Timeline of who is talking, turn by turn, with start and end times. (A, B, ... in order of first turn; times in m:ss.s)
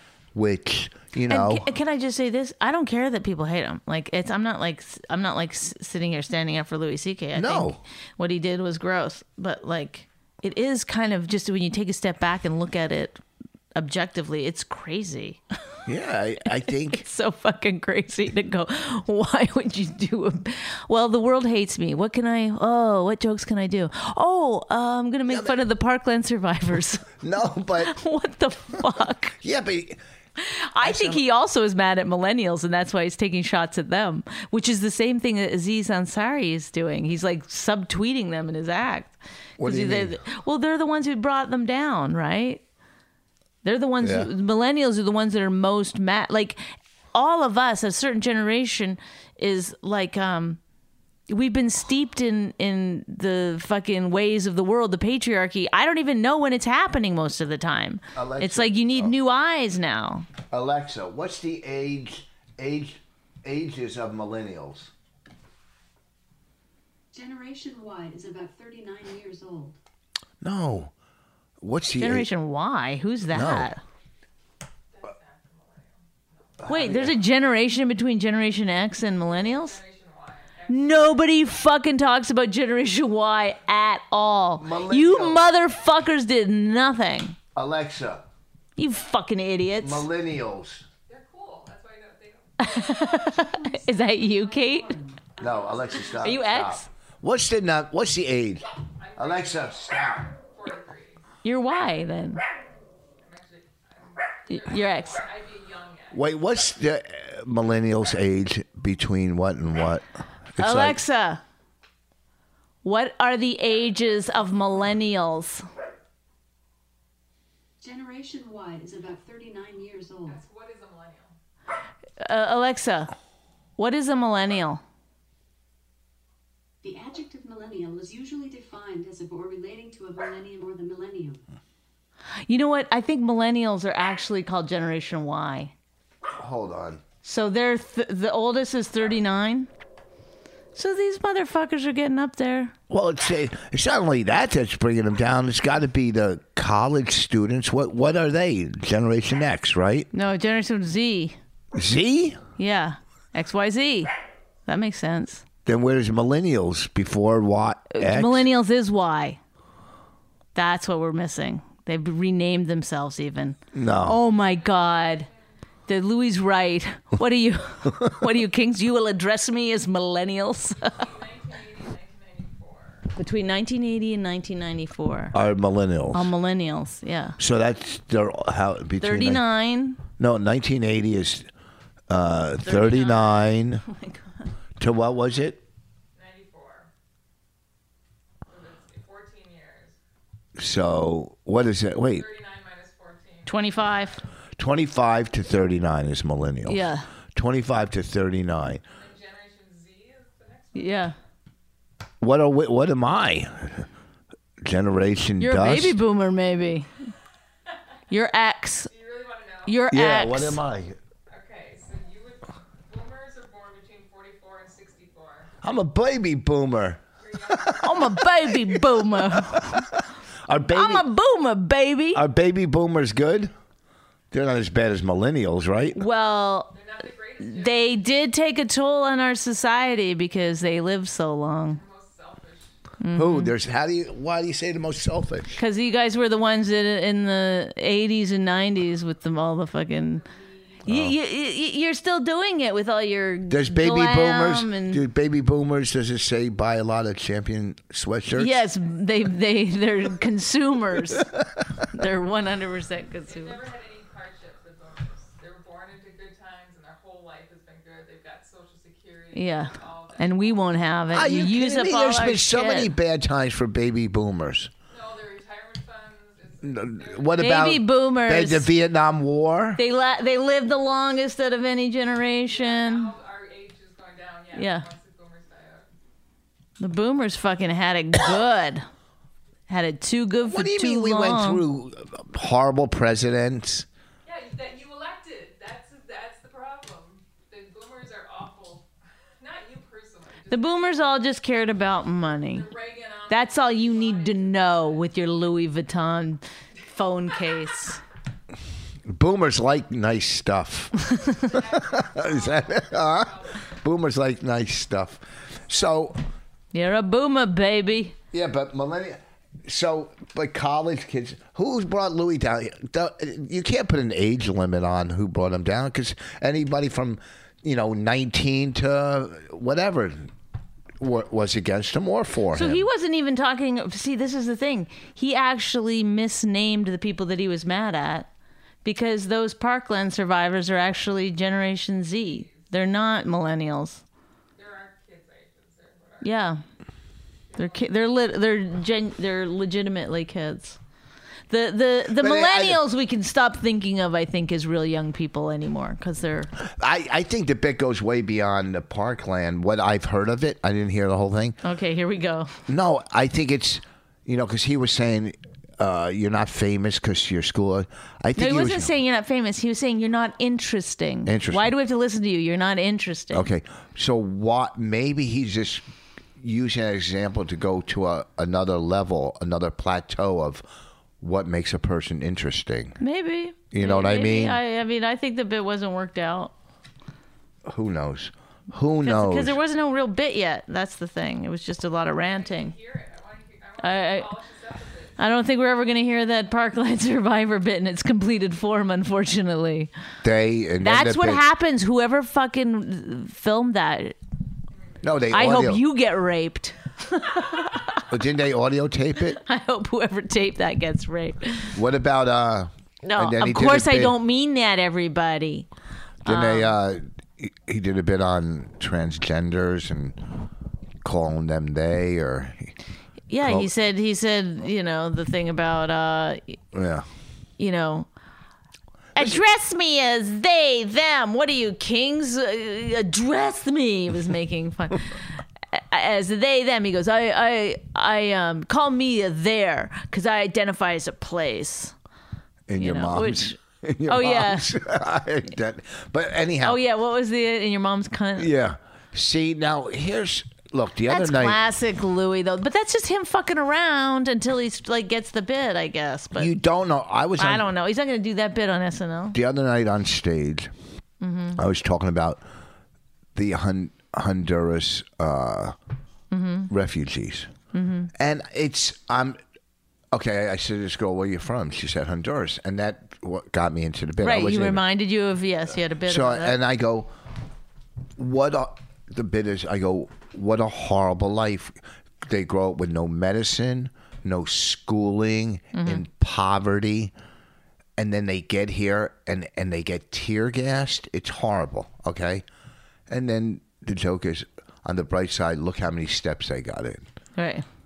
0:00.3-0:01.6 A
0:01.3-0:13.2 B
0:07.3-0:07.8 A
0:13.7-0:15.4 B
0:15.8-0:17.0 A
0:16.9-0:27.1 B
0:25.3-0:25.6 A
0:27.2-0:27.9 A
0:27.8-0:29.4 B
0:29.4-0:30.0 A
0:30.4-0:42.6 B
0:30.8-0:31.2 A
0:39.6-0:40.2 A
0:43.6-0:46.6 B
0:44.0-0:44.3 A
0:47.1-0:50.6 B
0:51.3-1:00.3 B
0:58.1-0:59.1 A
1:00.5-1:04.9 A
1:07.1-1:09.8 C
1:10.4-1:10.9 A
1:11.6-1:12.3 A
1:11.9-1:13.8 B
1:13.3-1:13.7 A
1:14.9-1:16.6 D
1:16.6-1:17.1 A
1:16.6-1:19.8 B
1:19.1-1:21.5 D
1:20.7-1:27.4 B
1:24.6-1:25.4 A
1:27.5-1:28.3 A
1:28.8-1:30.1 B
1:29.8-1:30.8 A
1:31.1-1:34.3 D
1:32.6-1:35.0 B
1:33.6-1:35.8 C
1:35.4-1:36.2 D
1:35.4-1:40.3 A
1:36.0-1:36.9 B
1:39.0-1:41.2 D
1:41.4-1:42.4 B
1:43.2-1:46.2 D
1:44.5-1:45.2 B
1:46.1-1:51.0 A
1:50.6-1:51.4 B
1:52.8-1:55.6 B
1:57.8-2:00.4 C
2:00.2-2:01.3 D
2:02.2-2:03.1 B
2:03.8-2:04.8 B
2:06.8-2:11.4 C
2:12.4-2:15.7 B
2:16.4-2:17.0 A
2:17.2-2:19.7 B
2:20.7-2:22.7 B
2:22.9-2:30.1 A
2:30.1-2:31.4 B
2:31.7-2:32.4 A
2:32.6-2:34.1 B
2:34.6-2:35.4 B
2:35.6-2:38.5 A
2:37.9-2:39.4 B
2:40.5-2:45.3 B
2:43.7-2:44.2 A
2:44.3-2:45.5 D
2:45.9-2:51.1 B
2:50.8-2:53.1 D
2:53.2-2:55.4 B
2:55.3-2:56.3 A
2:56.1-2:57.4 B
2:57.4-2:59.4 A
2:59.0-3:00.0 B
3:00.2-3:01.5 A
3:02.1-3:03.8 A
3:02.6-3:04.5 B
3:04.8-3:05.6 A
3:06.1-3:06.9 D
3:08.5-3:10.0 D
3:10.6-3:12.2 A
3:12.1-3:14.1 D
3:13.4-3:14.2 B
3:14.6-3:16.8 A
3:16.6-3:17.1 B
3:17.3-3:18.8 A
3:18.8-3:21.1 D
3:20.7-3:21.1 B
3:22.2-3:23.9 A
3:24.6-3:26.0 A
3:25.4-3:26.9 B
3:28.1-3:28.9 B
3:28.8-3:29.9 D
3:29.6-3:30.6 B
3:29.9-3:31.0 A
3:31.3-3:35.5 D
3:35.6-3:41.0 A
3:37.2-3:38.3 D
3:37.8-3:39.9 B
3:40.7-3:42.2 B
3:42.1-3:43.5 A
3:44.3-3:46.0 A
3:45.9-3:46.7 B
3:46.7-3:48.1 D
3:47.4-3:51.8 B
3:51.6-3:52.7 D
3:53.0-3:53.5 B
3:53.1-3:55.6 A
3:55.6-4:00.2 B
4:00.1-4:00.8 D
4:00.8-4:05.0 B
4:00.8-4:01.1 A
4:03.5-4:08.6 A
4:08.4-4:11.3 B
4:11.1-4:11.6 A
4:11.9-4:13.6 B
4:13.2-4:21.0 D
4:19.3-4:22.9 B
4:21.1-4:24.7 A
4:24.9-4:27.7 D
4:26.6-4:29.8 A
4:27.4-4:28.7 B
4:29.8-4:33.1 B
4:32.5-4:35.9 D
4:34.5-4:34.8 B
4:36.8-4:38.8 B
4:39.7-4:41.6 B
4:40.4-4:43.9 A
4:44.2-4:48.9 D
4:49.4-4:51.3 D
4:50.5-4:52.7 B
4:52.4-4:55.1 D
4:53.3-4:58.0 B
4:59.0-5:01.0 A
5:01.3-5:03.7 D
5:01.5-5:06.2 A
5:06.7-5:08.2 B
5:08.3-5:20.3 A
5:21.0-5:22.8 A
5:22.5-5:28.3 B
5:28.8-5:34.0 B
5:32.2-5:32.7 D
5:34.6-5:36.4 D
5:36.2-5:36.6 B
5:37.5-5:38.3 D
5:37.6-5:40.8 B
5:41.5-5:46.5 B
5:42.2-5:42.8 A
5:46.6-5:51.6 A
5:51.6-5:52.5 B
5:52.7-5:58.9 A
5:58.4-6:03.5 B
6:01.2-6:01.7 A
6:03.3-6:05.8 A
6:06.4-6:10.6 A
6:11.2-6:13.0 A
6:13.0-6:16.5 B
6:13.7-6:14.6 A
6:17.6-6:19.6 A
6:19.0-6:22.7 B
6:22.1-6:25.2 D
6:23.8-6:24.3 B
6:25.2-6:29.9 B
6:30.2-6:31.4 A
6:30.8-6:34.2 B
6:34.7-6:35.4 D
6:35.0-6:35.8 A
6:35.3-6:38.0 B
6:38.0-6:39.4 A
6:39.4-6:41.8 B
6:41.7-6:44.2 A
6:43.0-6:45.7 B
6:46.2-6:46.7 B
6:46.2-6:50.2 A
6:51.0-6:52.7 A
6:53.3-6:56.6 B
6:53.4-6:53.7 A
6:56.7-6:57.1 A
6:57.6-6:58.1 B
6:59.1-7:11.9 B
7:12.7-7:16.8 A
7:12.8-7:14.7 B
7:16.6-7:18.5 B
7:18.4-7:21.6 A
7:21.1-7:26.5 B
7:26.3-7:27.7 A
7:27.4-7:29.4 B
7:29.3-7:30.7 A
7:31.2-7:31.6 B
7:31.6-7:32.4 A
7:33.3-7:35.8 A
7:36.3-7:36.7 B
7:36.7-7:37.5 A
7:37.7-7:38.1 B
7:38.1-7:39.4 A
7:40.1-7:44.8 A
7:44.2-7:46.6 B
7:46.0-7:47.1 A
7:48.2-7:57.1 A
7:55.7-7:56.0 B
7:58.0-8:02.4 A
8:03.1-8:07.0 A
8:07.4-8:07.6 B